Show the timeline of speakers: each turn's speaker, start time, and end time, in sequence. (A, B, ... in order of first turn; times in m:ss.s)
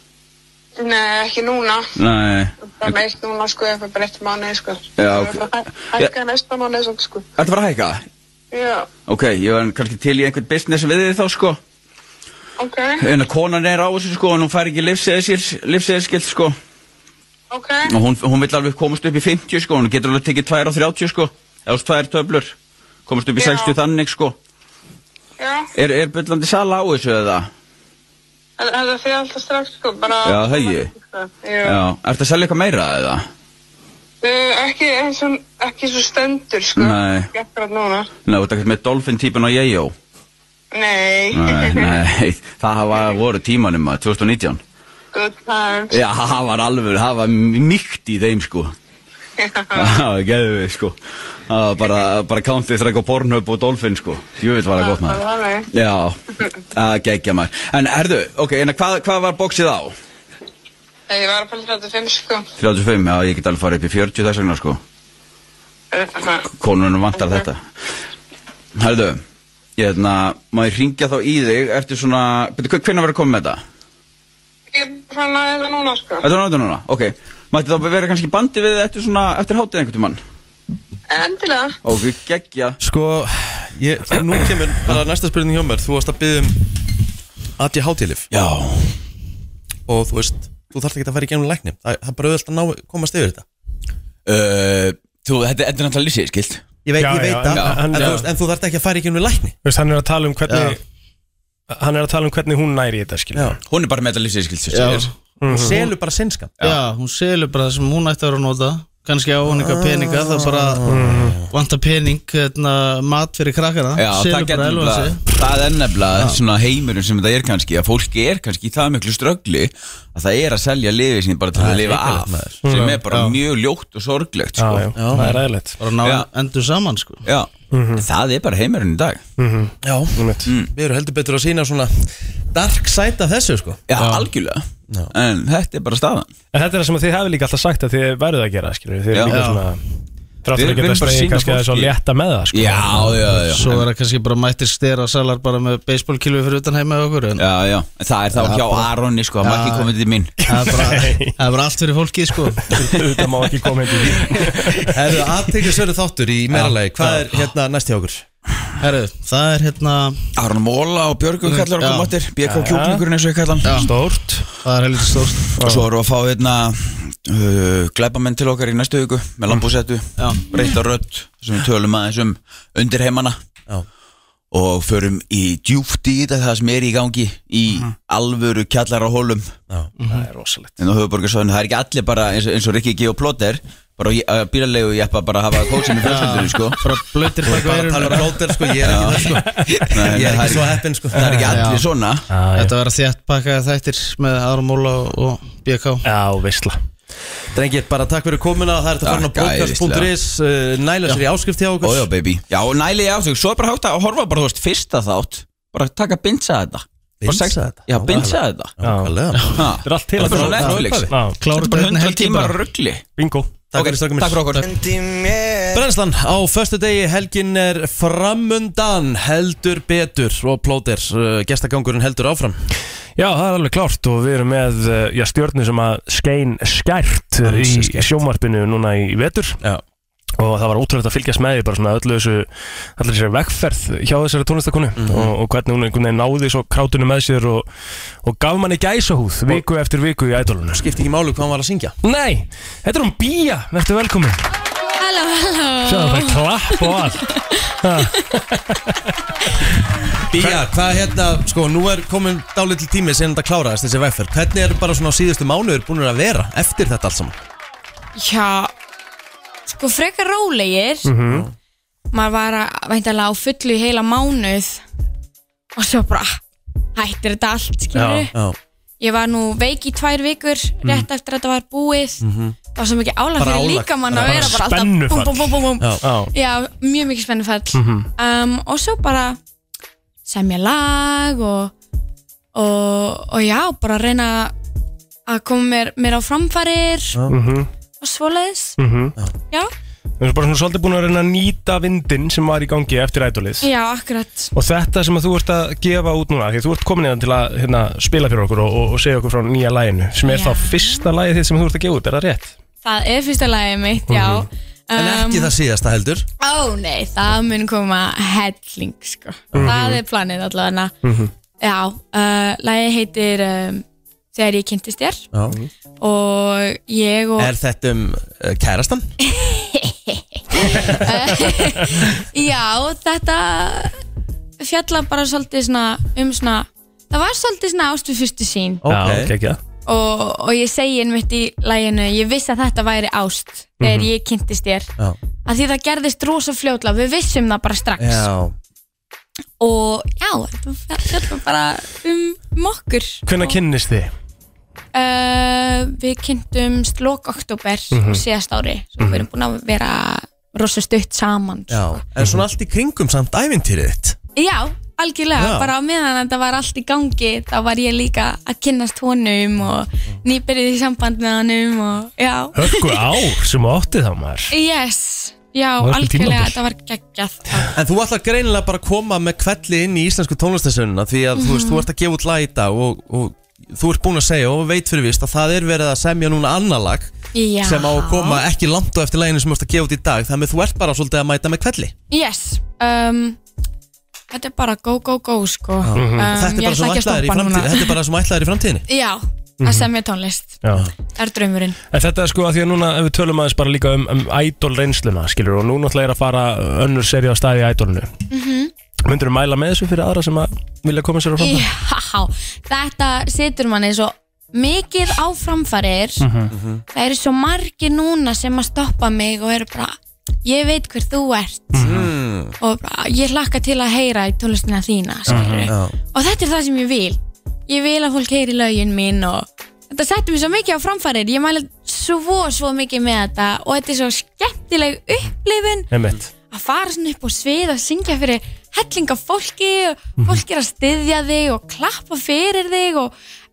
0:00.8-0:01.9 A
0:02.0-0:03.0 B
0:02.6-0:07.2 A
0:05.0-0:06.1 B
0:07.4-0:08.0 B
0:08.5-0:08.9 A
0:09.1-0:11.6 B
0:12.6-0:13.1 A
0:13.0-0:16.6 B
0:17.5-0:17.9 A
0:17.9-0:22.6 B
0:23.1-0:24.4 B
0:23.4-0:23.8 A
0:25.4-0:25.7 A
0:25.8-0:27.5 B
0:28.6-0:31.8 A
0:30.2-0:30.9 B
0:31.6-0:33.2 B
0:34.2-0:38.1 A
0:36.8-0:37.3 B
0:38.3-0:39.9 B
0:40.7-0:42.0 A
0:41.3-0:44.6 B
0:45.1-0:46.0 A
0:45.9-0:48.7 B
0:49.4-0:50.0 A
0:49.8-0:51.0 B
0:51.5-0:55.2 B
0:54.8-0:55.7 A
0:55.7-0:56.2 B
0:56.7-1:00.0 B
1:01.1-1:02.5 A
1:02.6-1:04.8 B
1:05.9-1:06.4 A
1:06.5-1:07.6 B
1:07.2-1:07.5 A
1:08.8-1:09.2 B
1:09.8-1:13.6 B
1:14.7-1:16.3 A
1:16.2-1:20.2 B
1:21.1-1:21.8 A
1:21.8-1:22.8 B
1:22.8-1:26.6 C
1:27.6-1:28.3 C
1:28.3-1:29.0 B
1:29.9-1:33.4 C
1:34.3-1:36.6 B
1:36.8-1:39.6 C
1:37.0-1:38.2 D
1:37.5-1:38.1 B
1:39.6-1:40.8 D
1:40.5-1:40.8 E
1:41.7-1:43.6 D
1:43.7-1:45.1 B
1:44.7-1:45.1 E
1:45.4-1:45.8 D
1:45.5-1:46.6 C
1:46.6-1:50.9 E
1:49.5-1:51.5 C
1:50.9-1:51.4 D
1:51.5-1:55.5 E
1:54.0-2:05.0 B
1:56.1-1:56.4 E
2:01.6-2:02.6 C
2:02.6-2:03.0 D
2:02.8-2:03.4 E
2:04.6-2:05.8 D
2:05.0-2:05.4 C
2:05.2-2:07.2 E
2:06.0-2:06.3 B
2:07.2-2:09.2 B
2:07.7-2:08.0 D
2:09.4-2:10.5 D
2:09.8-2:13.8 C
2:10.4-2:10.7 B
2:13.9-2:16.3 B
2:14.0-2:14.3 E
2:16.5-2:19.8 D
2:19.1-2:19.4 B
2:19.3-2:19.7 E
2:20.4-2:23.4 D
2:20.5-2:21.9 B
2:22.5-2:23.8 B
2:23.4-2:27.4 E
2:27.4-2:30.4 B
2:28.3-2:29.9 E
2:30.4-2:31.4 D
2:30.5-2:32.8 E
2:32.6-2:34.9 D
2:34.9-2:38.2 C
2:38.8-2:40.2 E
2:40.4-2:43.9 B
2:41.4-2:42.1 E
2:42.4-2:43.0 D
2:43.6-2:43.9 E
2:43.7-2:44.5 D
2:44.6-2:45.6 E
2:45.5-2:53.4 B
2:45.6-2:45.8 D
2:50.2-2:50.5 E
2:54.5-2:59.5 B
3:00.0-3:00.3 E
3:00.0-3:00.8 D
3:00.8-3:07.0 B
3:06.0-3:08.5 E
3:07.4-3:11.6 C
3:08.8-3:12.3 B
3:09.6-3:09.9 D
3:11.5-3:11.9 E
3:12.3-3:12.7 D
3:12.6-3:16.0 E
3:16.0-3:16.8 D
3:17.5-3:22.1 C
3:19.0-3:20.1 B
3:21.8-3:28.7 B
3:27.2-3:29.6 C
3:28.2-3:31.4 D
3:29.5-3:33.0 B
3:30.2-3:31.1 C
3:31.4-3:32.6 E
3:33.2-3:33.5 D
3:33.7-3:34.7 C
3:33.8-3:34.6 B
3:35.7-3:42.6 C
3:43.2-3:49.6 D
3:47.4-3:48.2 C
3:50.4-3:57.7 D
3:55.0-3:55.3 C
3:58.2-4:00.8 D
4:00.7-4:02.0 C
4:02.0-4:04.4 D
4:05.0-4:07.6 F
4:05.9-4:07.3 D
4:07.8-4:09.1 D
4:10.3-4:17.4 C
4:10.4-4:10.6 D
4:18.2-4:18.7 F
4:19.7-4:21.1 F
4:21.0-4:21.5 D
4:21.3-4:21.5 C
4:22.1-4:24.8 F
4:25.8-4:26.4 F
4:27.0-4:28.3 F
4:27.9-4:28.3 D
4:29.0-4:32.2 F
4:32.2-4:32.6 C
4:32.7-4:39.4 F
4:33.4-4:34.6 C
4:34.1-4:36.3 D
4:37.7-4:38.1 D
4:40.3-4:41.7 F
4:42.5-4:44.6 F
4:45.3-4:47.2 F
4:47.3-4:47.7 D
4:48.0-4:48.8 F
4:48.8-4:49.2 D
4:50.2-4:53.7 D
4:53.6-4:54.5 F
4:54.5-5:02.6 D
5:00.2-5:01.1 F
5:02.8-5:05.5 F
5:04.1-5:04.5 D
5:05.0-5:06.3 C
5:06.4-5:10.9 F
5:09.5-5:10.0 C
5:09.5-5:10.0 D
5:11.0-5:11.3 D
5:11.6-5:15.3 F
5:16.0-5:17.5 F
5:17.4-5:19.1 C
5:19.2-5:24.0 F
5:24.6-5:28.8 F
5:28.8-5:29.3 C
5:28.9-5:29.6 D
5:29.9-5:34.9 F
5:33.8-5:34.1 D
5:35.4-5:38.3 F
5:38.0-5:38.6 C
5:39.6-5:43.6 F
5:43.3-5:44.1 D
5:44.9-5:52.0 F
5:47.9-5:48.2 D
5:49.0-5:49.3 D
5:51.7-5:54.2 C
5:54.4-6:03.0 F
5:55.4-5:55.7 C
6:02.6-6:04.5 D
6:04.5-6:07.7 F
6:05.8-6:06.6 D
6:07.7-6:21.9 C
6:11.4-6:11.9 F
6:17.3-6:18.4 F
6:22.1-6:23.4 F
6:24.3-6:28.0 F
6:25.8-6:28.9 C
6:26.0-6:26.3 D
6:28.9-6:31.8 F
6:29.6-6:29.9 D
6:30.6-6:30.9 D
6:31.9-6:38.1 D
6:38.3-6:38.7 F
6:39.0-6:41.7 D
6:41.4-6:46.2 F
6:46.2-6:46.5 D
6:46.5-6:46.8 C
6:46.9-6:51.9 F
6:51.7-6:52.0 D
6:51.8-6:52.6 C
6:52.6-7:05.9 F
6:55.3-6:55.7 D
6:55.3-6:56.0 C
7:05.9-7:06.3 D
7:06.5-7:13.1 F